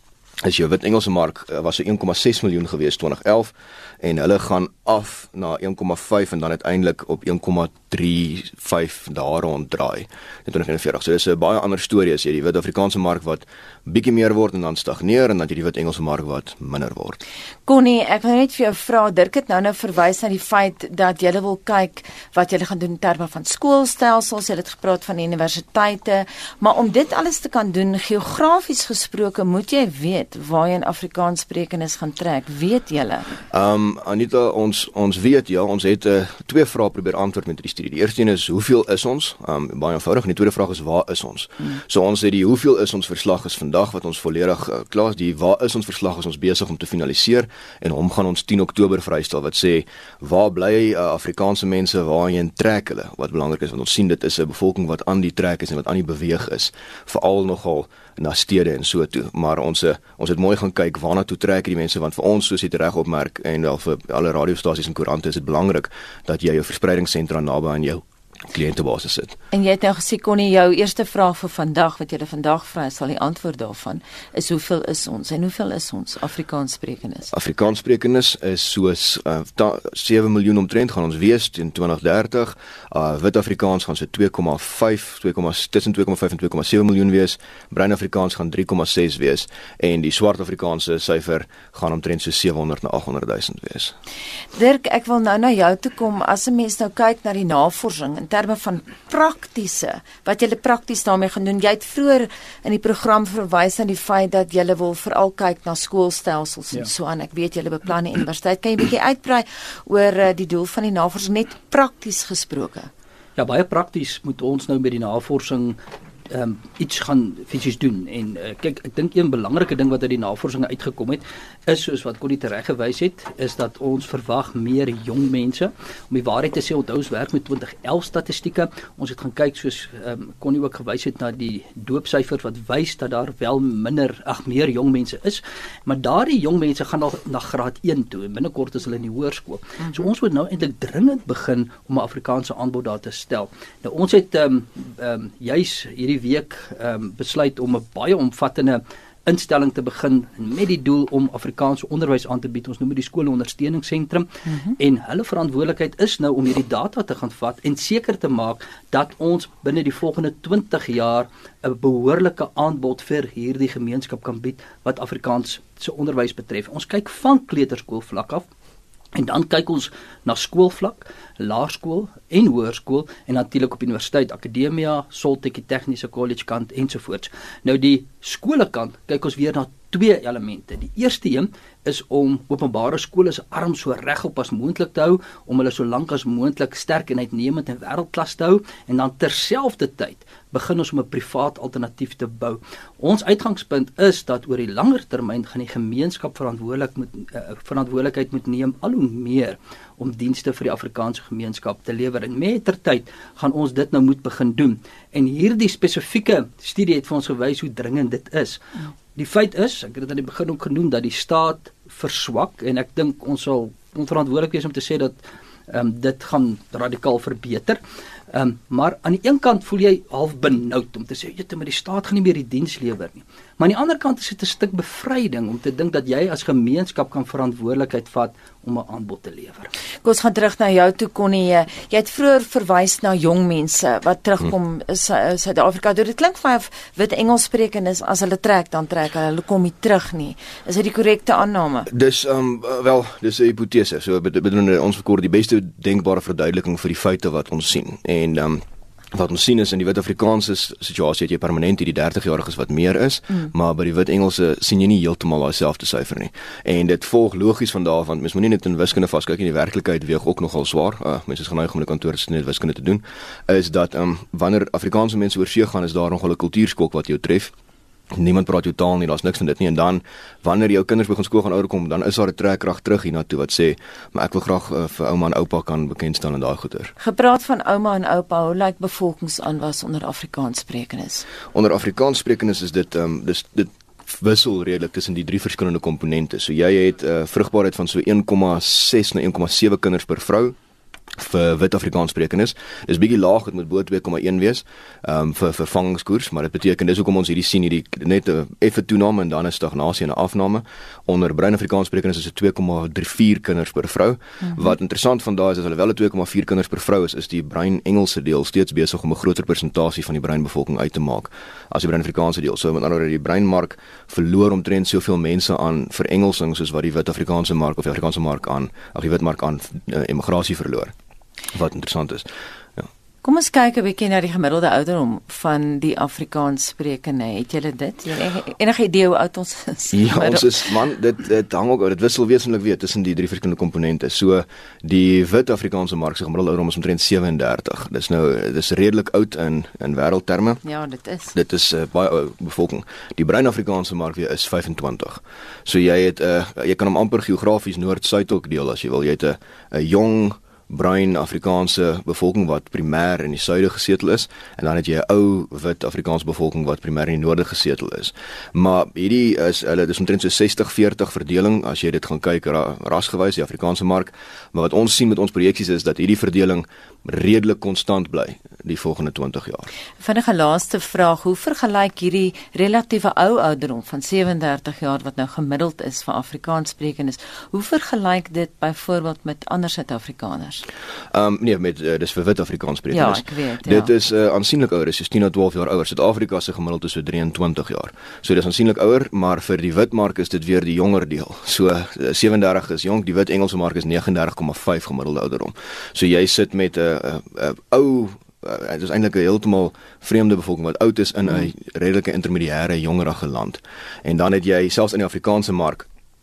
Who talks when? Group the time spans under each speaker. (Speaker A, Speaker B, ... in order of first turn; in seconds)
Speaker A: 0.4-17.2, 33.5-69.4, 77.3-93.9, 241.9-267.5, 268.1-276.9, 281.5-290.6, 291.2-320.9, 321.5-322.9, 329.9-340.6, 341.4-369.7, 381.1-405.9
Speaker B: 17.7-33.4, 69.5-77.3, 94.5-112.9, 154.5-154.8, 230.0-241.9, 277.0-281.3, 323.2-330.6, 340.6-341.4, 370.0-380.6, 382.9-383.9
Speaker C: 113.4-115.8, 116.3-168.5, 169.2-217.8, 218.3-229.7